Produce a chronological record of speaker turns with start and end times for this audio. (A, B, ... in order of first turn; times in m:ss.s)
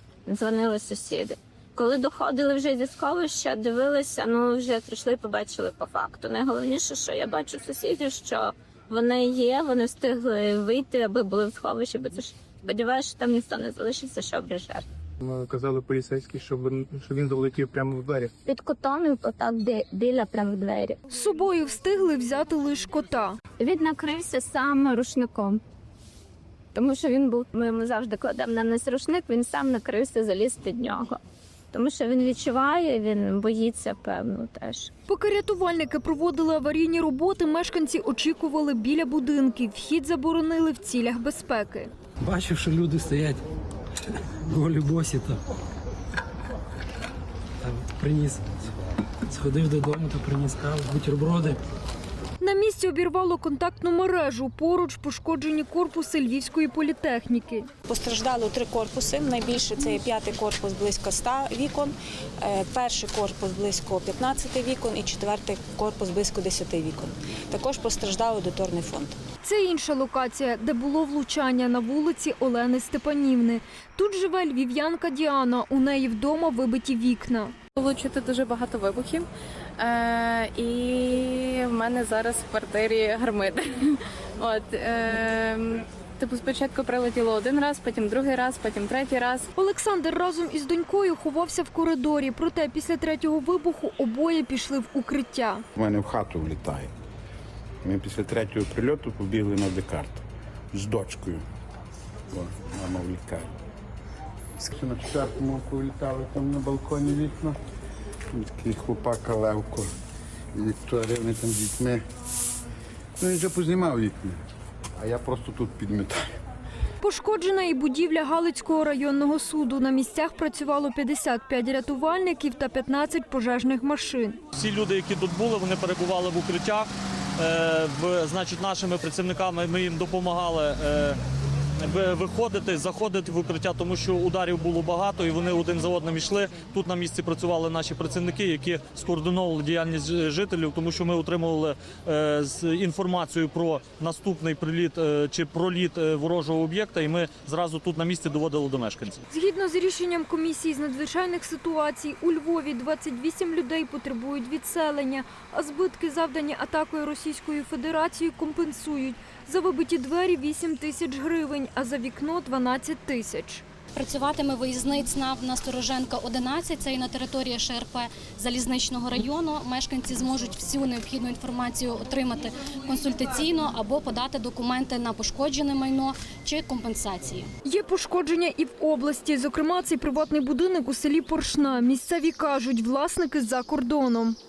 0:00.3-0:14.8 A
0:15.2-0:18.3 B
0:18.5-0:21.0 A
0:21.1-0:23.4 C
0:23.6-0:25.6 A
0:26.8-0:31.2 A
0:31.7-0:34.9 A
0:35.1-0:41.9 C
0:42.2-0:43.4 D
0:44.5-0:45.4 D
0:47.6-0:48.6 D
0:49.3-0:51.6 D
0:52.4-0:57.7 C
0:57.9-1:01.9 E
1:02.5-1:09.1 E
1:09.4-1:17.5 C
1:17.8-1:29.5 F
1:29.6-1:35.6 C
1:35.8-1:36.9 G
1:37.8-1:41.4 G
1:42.3-1:43.5 G
1:44.6-1:47.6 G
1:48.4-1:49.9 G
1:50.6-1:52.0 G
1:53.2-1:54.4 G
1:55.0-1:56.2 G
1:57.0-2:04.4 C
2:04.5-2:11.2 H
2:11.8-2:29.2 H
2:29.3-2:43.6 C
2:44.0-2:57.4 I
2:57.6-3:04.4 C